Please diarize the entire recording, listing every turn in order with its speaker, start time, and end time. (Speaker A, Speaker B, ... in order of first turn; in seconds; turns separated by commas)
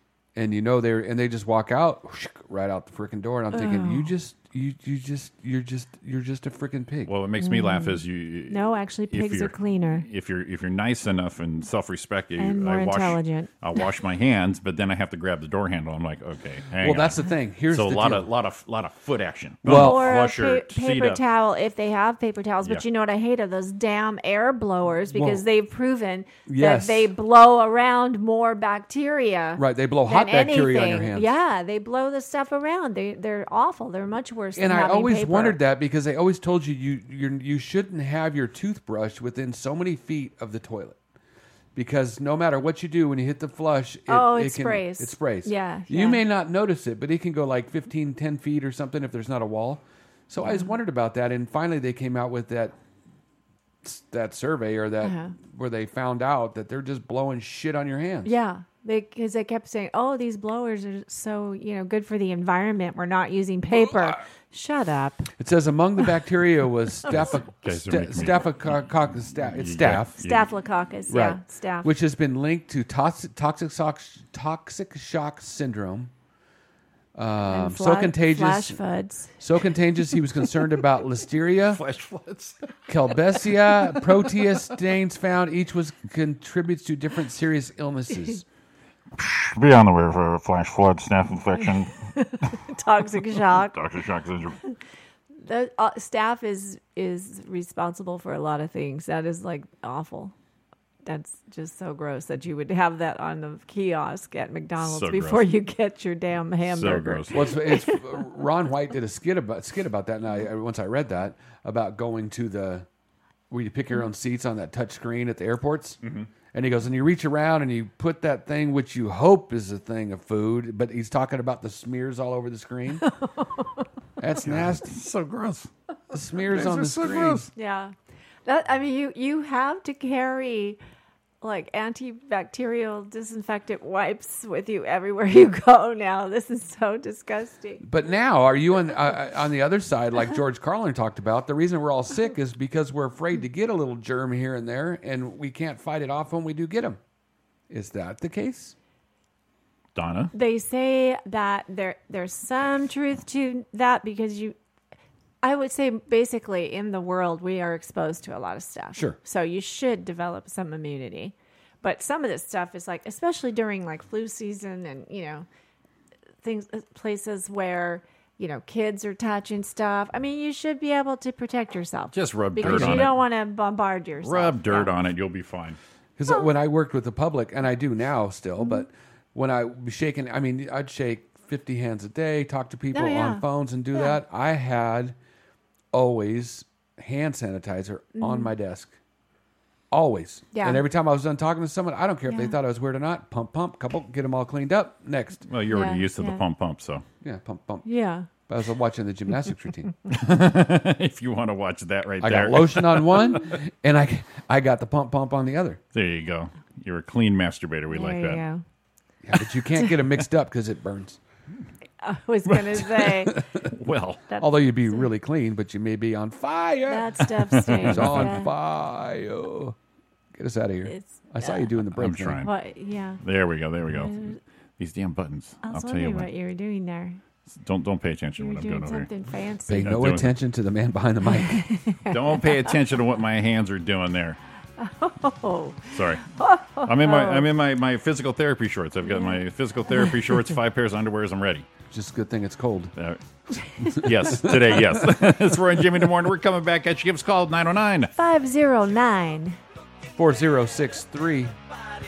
Speaker A: 0.3-7.1, Speaker B: 3.5-4.1, Speaker C: 7.1-21.2, Speaker B: 7.4-10.0, Speaker B: 12.4-13.5, Speaker A: 16.8-18.3, Speaker A: 19.6-20.2, Speaker B: 19.6-35.6, Speaker A: 25.1-25.4, Speaker A: 26.5-27.1, Speaker A: 29.6-31.3, Speaker A: 34.5-41.0, Speaker A: 41.7-52.7, Speaker B: 44.1-46.2, Speaker B: 50.4-50.7, Speaker A: 53.8-58.3, Speaker B: 55.0-55.3, Speaker B: 58.2-65.3, Speaker A: 65.4-70.1, Speaker C: 67.1-68.8, Speaker C: 69.4-70.5, Speaker B: 70.2-71.9, Speaker A: 71.1-76.1, Speaker A: 77.1-78.8, Speaker B: 77.5-79.3, Speaker A: 79.4-81.8, Speaker C: 81.7-82.7, Speaker A: 82.9-88.4, Speaker C: 89.2-91.9, Speaker B: 92.2-93.7, Speaker C: 93.4-94.6, Speaker B: 95.4-100.3, Speaker B: 101.0-108.0, Speaker C: 104.8-105.5, Speaker C: 106.7-107.5, Speaker A: 107.3-112.8, Speaker A: 113.5-116.0, Speaker C: 116.0-116.3, Speaker A: 116.5-123.0, Speaker B: 123.0-123.8, Speaker A: 124.2-124.9, Speaker C: 124.4-125.7, Speaker A: 126.1-127.5, Speaker C: 126.4-127.5, Speaker B: 127.5-127.9, Speaker B: 128.4-130.8, Speaker B: 131.4-137.8, Speaker A: 137.8-147.0, Speaker A: 147.7-148.7, Speaker C: 149.9-150.3, Speaker B: 150.3-154.6, Speaker B: 155.4-165.4, Speaker B: 166.4-174.9, Speaker C: 172.1-173.2, Speaker A: 172.6-173.1, Speaker C: 174.2-175.8, Speaker A: 176.2-185.2, Speaker B: 178.6-178.8, Speaker B: 182.9-184.2, Speaker A: 185.9-188.9, Speaker B: 188.2-188.5, Speaker A: 189.9-195.4, Speaker B: 190.5-190.8, Speaker B: 192.3-192.6, Speaker C: 195.5-197.0, Speaker B: 195.7-196.4, Speaker A: 197.2-197.8, Speaker B: 197.8-198.3, Speaker A: 198.4-199.9, Speaker C: 200.1-203.6, Speaker A: 202.2-205.8, Speaker C: 205.9-208.4, Speaker B: 207.9-208.6, Speaker A: 209.2-211.2, Speaker B: 212.0-213.4, Speaker C: 212.5-214.2, Speaker A: 213.4-213.6, Speaker B: 214.3-215.1, Speaker A: 214.4-219.8, Speaker B: 216.8-218.5, Speaker C: 217.4-218.3, Speaker A: 220.3-222.4, Speaker B: 220.8-221.7, Speaker C: 221.9-222.5, Speaker B: 222.4-223.2, Speaker C: 223.2-226.3, Speaker B: 223.9-224.4, Speaker B: 225.6-227.2, Speaker C: 227.5-229.1, Speaker B: 228.4-229.9, Speaker A: 229.7-231.6, Speaker C: 229.7-230.3, Speaker B: 231.3-232.7, Speaker C: 232.1-234.4, Speaker B: 234.8-237.5, Speaker C: 235.9-236.2, Speaker C: 236.8-241.7, Speaker B: 239.0-239.4, Speaker A: 241.9-242.9, Speaker C: 243.8-248.1, Speaker B: 248.2-249.6, Speaker A: 250.2-251.5